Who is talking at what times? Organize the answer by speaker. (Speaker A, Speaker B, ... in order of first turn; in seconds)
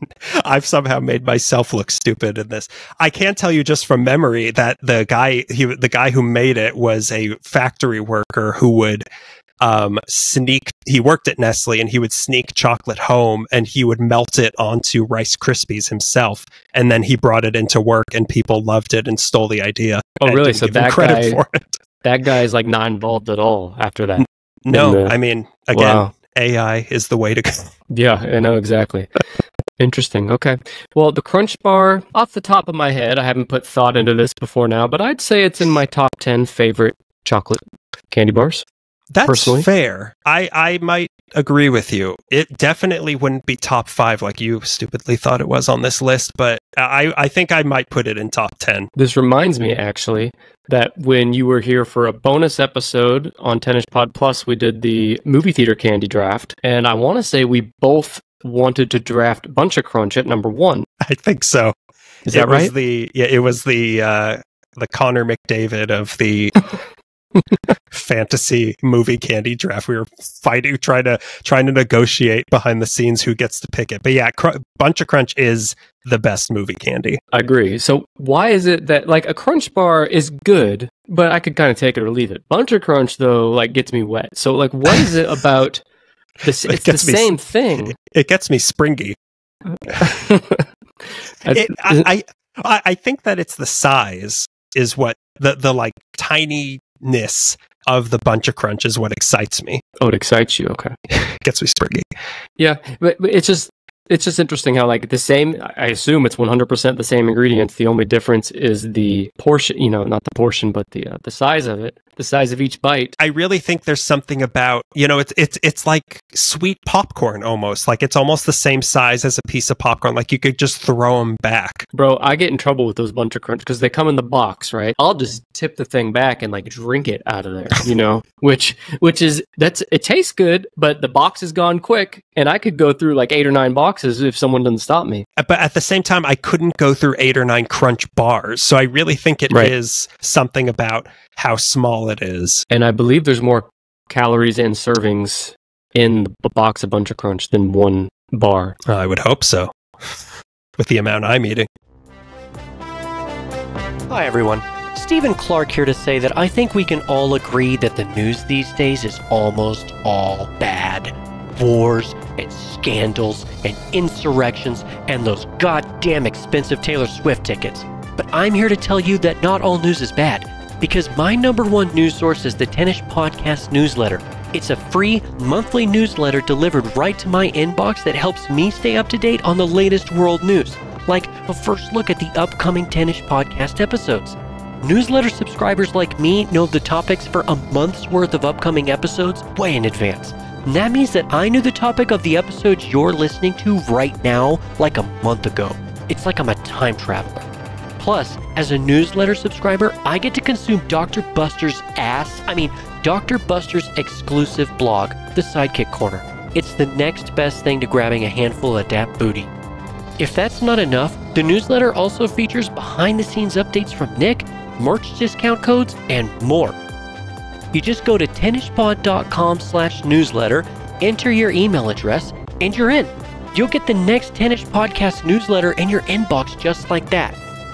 Speaker A: 0.2-9.0, 9.6-21.8, 24.2-27.7, 39.1-48.9, 61.0-61.7, 62.3-66.6, 67.9-77.2, 86.6-87.3, 87.8-89.2, 91.5-99.8, 101.1-102.1, 113.2-121.9, 135.4-142.6, 148.8-149.7, 150.8-151.7
Speaker B: 20.2-21.4, 22.0-25.1, 25.7-26.1, 27.9-29.1, 29.8-38.6, 39.2-39.7, 49.0-60.9, 62.2-62.7, 77.3-85.8, 86.4-87.9, 90.0-90.6, 91.4-92.1, 100.0-100.9, 102.6-113.1, 121.9-135.2, 142.7-148.8
Speaker C: 154.1-197.5, 198.0-209.5, 210.2-216.7, 217.7-227.4